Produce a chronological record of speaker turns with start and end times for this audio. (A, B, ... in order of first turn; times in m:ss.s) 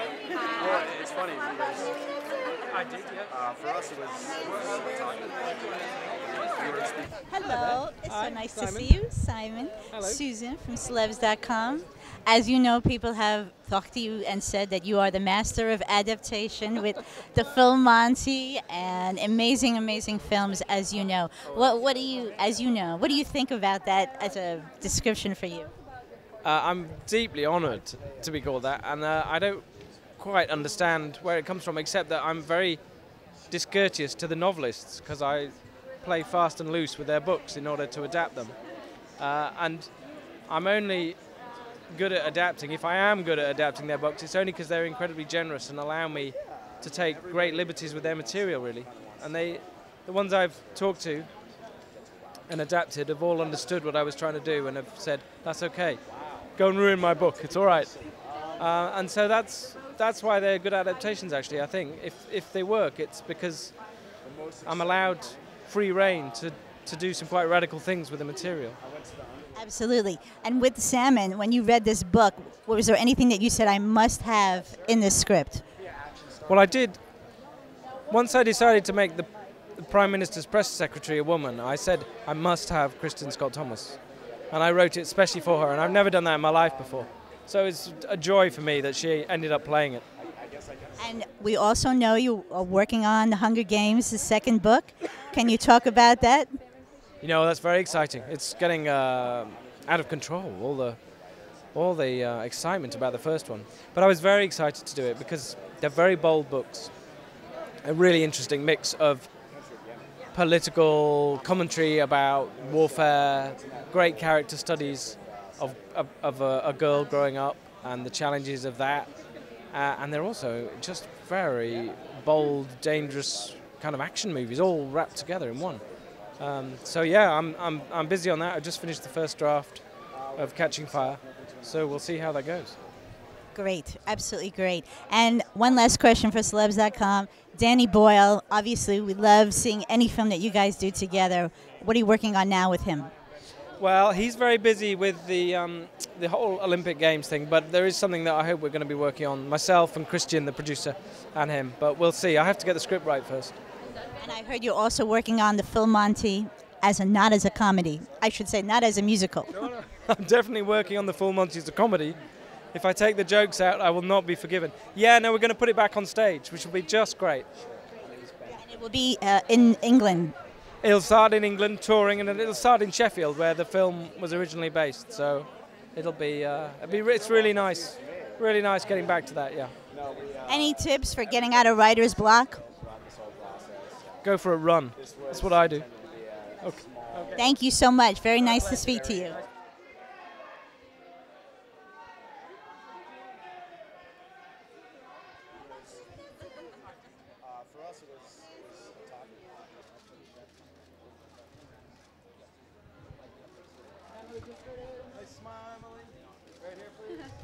0:00.6-0:01.2 A
0:02.7-0:03.3 A
0:03.4-0:05.9 B
0:06.5-0:06.9 B
0:07.3-0:25.7 C
0:07.4-0:08.9 A
0:09.9-0:10.2 A
0:21.4-0:21.8 A
0:26.4-0:38.6 A
0:39.2-0:39.9 A
0:40.5-0:41.2 A
0:41.9-0:51.3 A
0:52.5-1:03.9 A
1:04.6-1:08.8 A
1:08.9-1:09.5 B
1:09.5-1:15.6 C
1:16.0-1:16.4 B
1:16.5-1:17.0 A
1:18.1-1:30.0 A
1:31.0-1:36.5 C
1:37.2-1:46.9 A
1:47.8-1:49.3 A
1:50.3-1:59.2 A
1:59.7-2:12.8 A
2:13.5-2:23.1 C
2:23.8-2:33.6 A
2:34.2-2:39.6 C
2:39.5-2:47.5 A
2:48.1-2:48.5 B
2:48.6-2:50.4 C
2:50.8-2:59.8 A
3:00.0-3:00.4 B
3:00.5-3:02.6 C
3:02.6-3:04.0 B
3:04.2-3:05.9 A
3:05.7-3:06.1 B
3:06.6-3:07.4 A
3:06.7-3:07.3 B
3:07.4-3:09.4 C
3:17.9-3:18.6 B